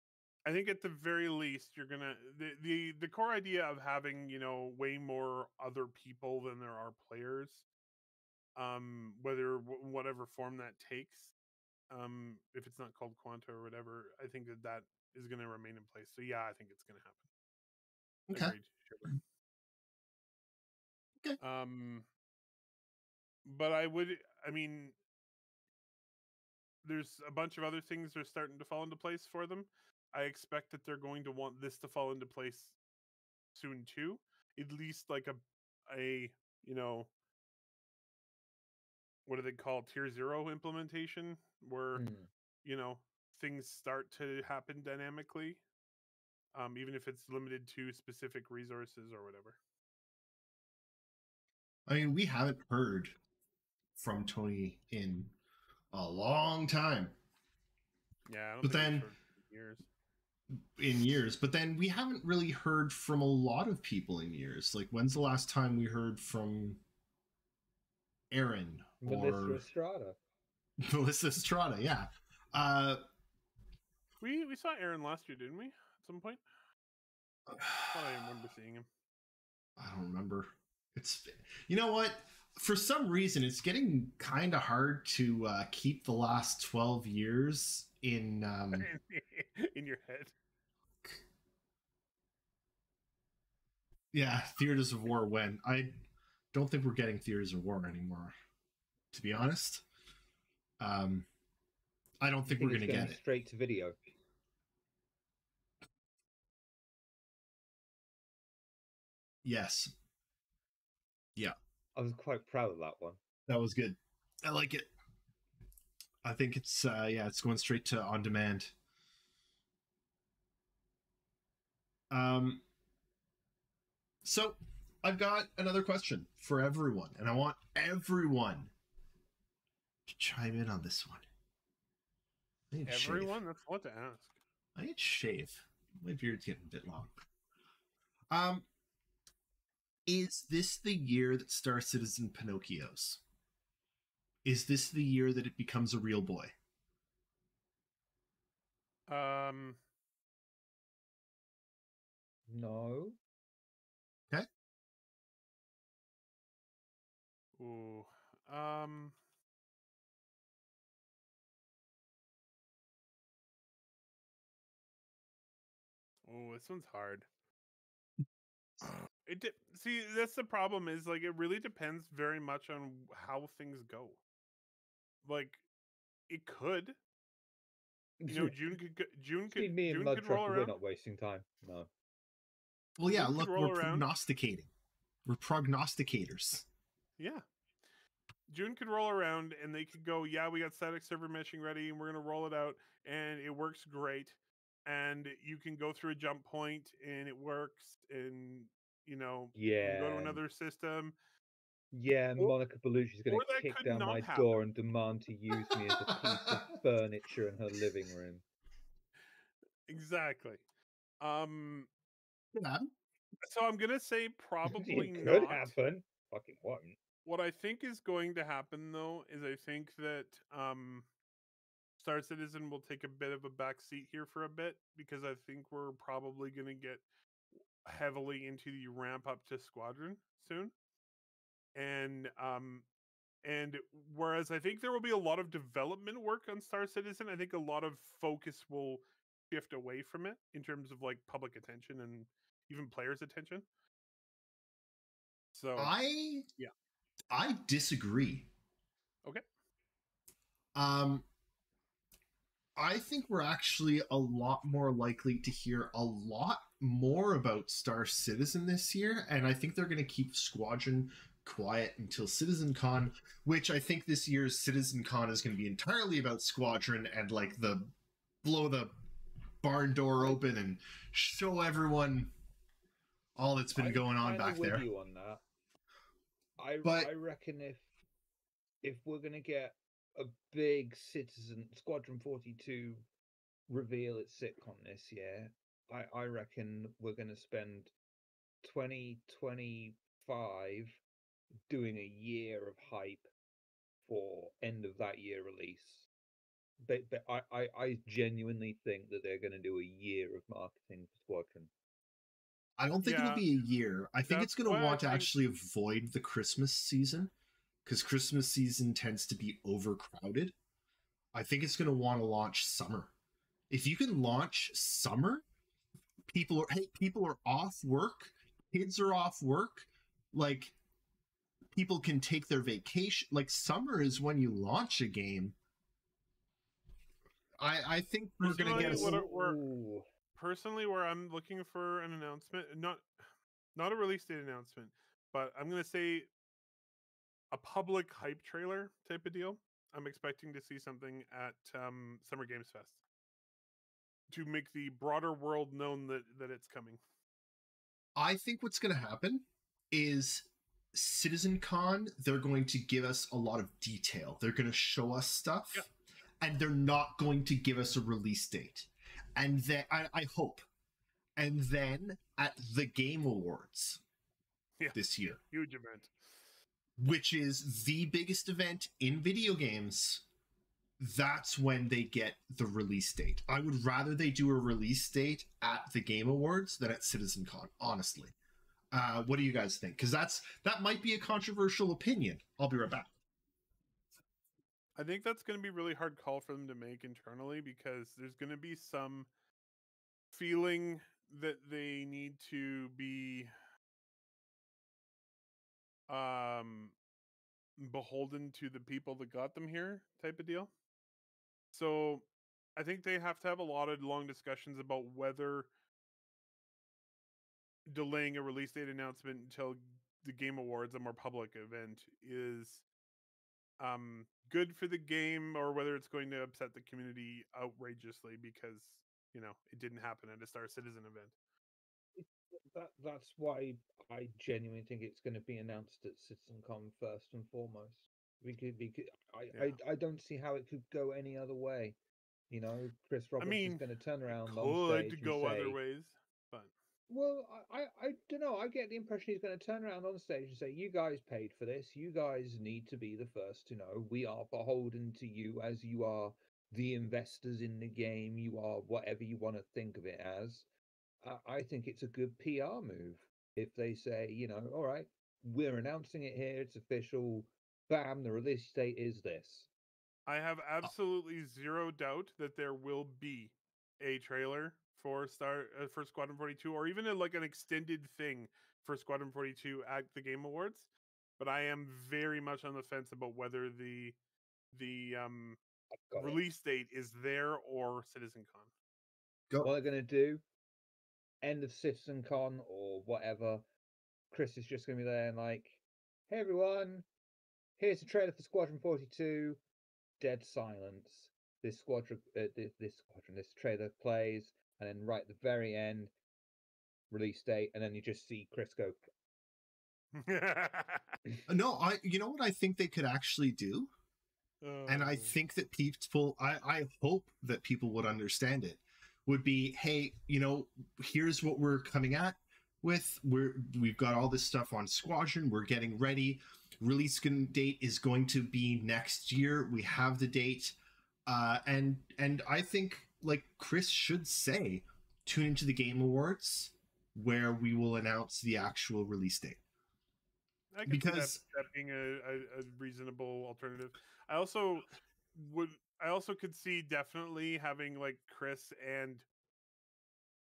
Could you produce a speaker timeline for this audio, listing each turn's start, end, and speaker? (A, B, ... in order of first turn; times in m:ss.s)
0:00.4-0:07.6 A
0:08.6-0:11.3 A
0:11.9-0:17.3 A
0:18.3-0:18.6 B
0:18.3-0:19.2 A
0:21.4-0:22.1 A
0:23.4-0:25.0 A
0:26.8-0:32.8 A
0:33.5-0:37.1 A
0:39.3-0:42.1 A
0:42.0-0:42.3 C
0:42.6-0:45.6 A
0:46.5-0:49.6 A
0:51.9-0:53.2 B
0:54.0-0:55.3 B
0:55.9-0:57.2 B
0:58.3-0:59.9 A
0:58.6-0:59.1 B
1:00.5-1:06.8 B
1:08.3-1:09.6 B
1:09.0-1:10.2 C
1:10.8-1:13.0 B
1:14.2-1:16.4 A
1:17.5-1:18.2 B
1:17.9-1:18.9 A
1:19.8-1:28.9 B
1:28.7-1:30.3 A
1:34.1-1:36.0 B
1:36.5-1:38.4 B
1:39.1-1:39.8 B
1:40.8-1:41.3 B
1:42.2-1:43.2 B
1:42.5-1:44.0 C
1:49.4-1:49.9 B
1:52.0-1:53.2 C
1:53.5-1:54.9 B
1:56.2-1:58.7 B
2:02.1-2:02.6 B
2:04.2-2:08.7 B
2:10.1-2:11.3 B
2:12.7-2:13.4 B
2:12.9-2:14.3 A
2:14.8-2:17.1 B
2:18.3-2:18.7 B
2:20.1-2:23.2 B
2:24.4-2:26.5 B
2:29.1-2:29.8 A
2:32.5-2:33.2 C
2:37.6-2:39.2 A
2:46.3-2:47.3 A
2:49.3-2:54.2 A
2:55.2-2:55.6 A
2:56.3-2:57.0 A
2:58.2-2:58.6 C
2:58.3-3:00.8 A
2:59.5-3:01.9 C
3:03.0-3:04.7 B
3:03.1-3:04.1 A
3:05.3-3:06.7 B
3:07.2-3:07.4 A
3:08.5-3:21.2 A
3:19.6-3:20.4 C
3:21.9-3:28.4 C
3:23.3-3:24.5 A
3:29.9-3:30.6 A
3:31.2-3:31.9 A
3:32.5-3:32.9 B
3:33.4-3:35.7 A
3:34.7-3:37.0 C
3:37.3-3:41.1 A
3:42.0-3:47.0 A
3:47.8-3:50.7 A
3:51.8-3:52.9 A
3:53.4-4:03.6 A
4:05.5-4:05.9 A
4:05.8-4:06.4 B
4:07.3-4:08.5 B
4:10.8-4:11.3 B
4:12.8-4:27.9 B
4:28.4-4:28.9 B
4:29.6-4:32.3 B
4:33.4-4:34.8 B
4:33.8-4:35.4 C
4:36.6-4:37.9 C
4:36.8-4:37.1 B
4:38.8-4:43.1 C
4:43.7-4:47.9 C
4:48.6-4:51.0 C
4:51.7-4:53.3 C
4:54.1-4:56.1 C
4:56.8-5:01.7 C
5:02.8-5:07.3 B
5:03.0-5:03.4 A
5:04.2-5:05.3 A
5:07.8-5:10.6 B
5:11.3-5:13.1 B
5:13.7-5:15.4 B
5:16.3-5:20.8 B
5:21.7-5:25.6 B
5:27.6-5:29.2 B
5:28.4-5:29.6 A
5:28.6-5:30.1 C
5:30.4-5:33.1 A
5:33.8-5:36.3 A
5:37.5-5:43.0 A
5:44.3-5:47.0 A
5:48.2-5:55.9 B
5:56.4-6:00.6 B
6:01.4-6:04.0 B
6:04.9-6:05.4 B
6:05.5-6:06.1 A
6:07.0-6:10.2 B
6:11.0-6:18.4 B
6:18.9-6:23.1 B
6:25.0-6:29.3 A
6:30.3-6:33.5 A
6:36.1-6:37.0 A
6:37.8-6:40.7 A
6:41.7-6:45.7 A
6:47.9-6:52.8 A
6:53.8-7:01.4 A
7:02.2-7:12.0 C
7:12.5-7:15.8 C
7:13.4-7:13.8 A
7:14.4-7:16.7 A
7:17.1-7:30.7 C
7:31.2-7:39.7 C
7:40.3-7:50.9 A
7:51.4-7:54.2 A
7:54.7-7:55.6 A
7:56.1-7:56.4 C
7:56.2-7:58.7 A
7:59.6-8:00.4 C
8:01.4-8:03.6 C
8:04.3-8:07.1 C
8:07.8-8:09.6 C
8:10.2-8:16.1 C
8:17.1-8:19.0 C
8:20.1-8:21.2 A
8:21.5-8:23.9 B
8:24.6-8:25.3 A
8:24.9-8:49.6 B
8:50.7-8:59.3 A
8:50.9-8:51.4 B